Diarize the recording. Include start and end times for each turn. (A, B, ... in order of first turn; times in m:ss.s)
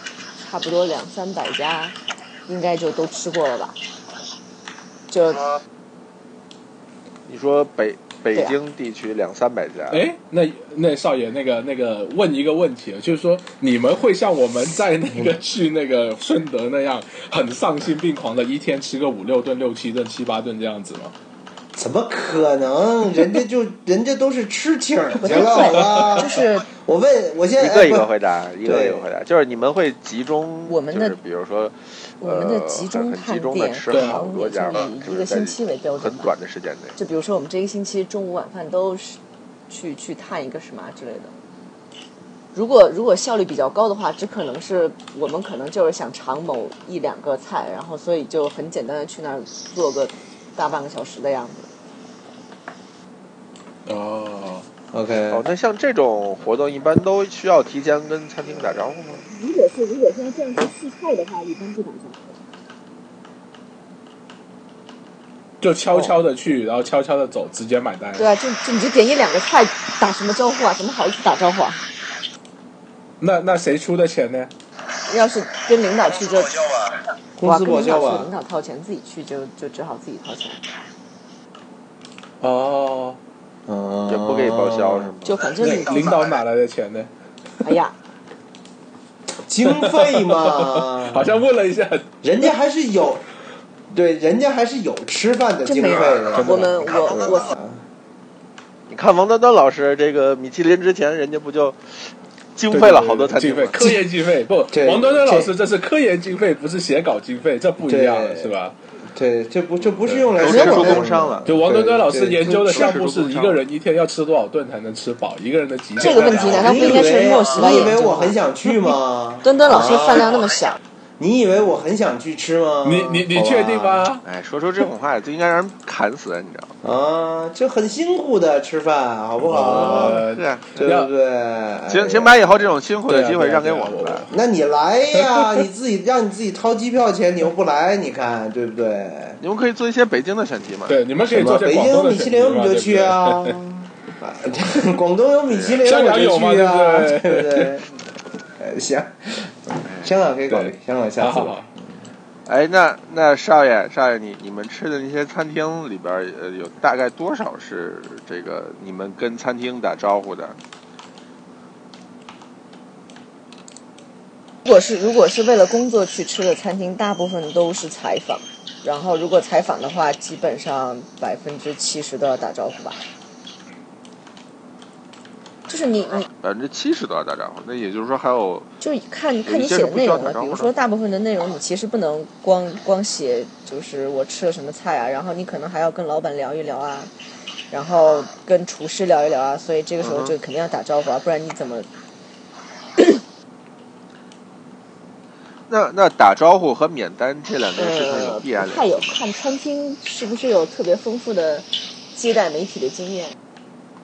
0:00.4-0:02.0 A
0:02.5-0:03.8 A
0:05.1-0:05.5 A
0:07.3-0:10.0 B
0:09.9-0:21.1 C
0:21.8-0:28.1 D
0:25.2-0:26.7 A
0:25.6-0:26.1 C
0:27.6-0:37.0 B
0:28.6-0:29.1 D
0:30.7-0:31.2 A
0:32.2-0:36.3 A
0:33.9-0:34.2 C
0:37.0-0:41.3 A
0:42.5-0:51.7 A
0:53.9-0:54.7 C
0:54.9-0:55.4 D
0:55.3-0:59.2 B
0:59.3-1:02.3 A
1:05.6-1:08.3 C
1:08.2-1:11.8 A
1:13.2-1:14.5 C
1:15.1-1:16.9 A
1:17.4-1:18.3 D
1:17.4-1:20.6 A
1:22.4-1:23.2 C
1:23.7-1:25.1 D
1:24.1-1:25.4 B
1:25.2-1:26.1 A
1:25.6-1:27.1 C
1:27.6-1:28.0 A
1:29.4-1:31.4 D
1:29.6-1:32.1 C
1:32.2-1:33.2 D
1:33.9-1:37.8 D
1:35.6-1:37.6 A
1:36.3-1:36.8 C
1:38.9-1:41.8 B
1:42.6-1:43.8 B
1:42.7-1:48.8 C
1:44.7-1:45.5 D
1:47.8-1:48.5 D
1:49.1-1:52.9 D
1:49.9-1:57.0 C
1:50.4-1:51.5 B
1:50.5-1:51.0 A
1:52.4-1:53.6 B
1:56.0-1:58.4 A
1:56.3-2:00.3 D
1:59.4-2:00.8 A
2:01.2-2:04.1 D
2:02.8-2:04.2 C
2:04.2-2:06.7 B
2:06.8-2:10.2 D
2:09.5-2:11.1 C
2:09.7-2:10.7 B
2:10.8-2:12.7 D
2:11.9-2:14.3 B
2:13.1-2:14.3 C
2:14.3-2:19.4 D
2:15.2-2:15.6 C
2:19.4-2:21.0 B
2:20.9-2:23.6 C
2:21.3-2:28.0 D
2:25.5-2:25.8 B
2:25.8-2:27.8 C
2:28.6-2:31.9 D
2:29.8-2:30.1 B
2:30.5-2:31.7 C
2:32.5-2:40.6 B
2:44.6-2:53.0 A
2:55.7-2:56.3 A
2:56.4-2:58.7 B
2:58.8-3:07.1 A
2:59.4-3:00.7 B
3:07.7-3:11.9 A
3:10.0-3:10.3 B
3:15.7-3:19.2 B
3:17.8-3:23.4 A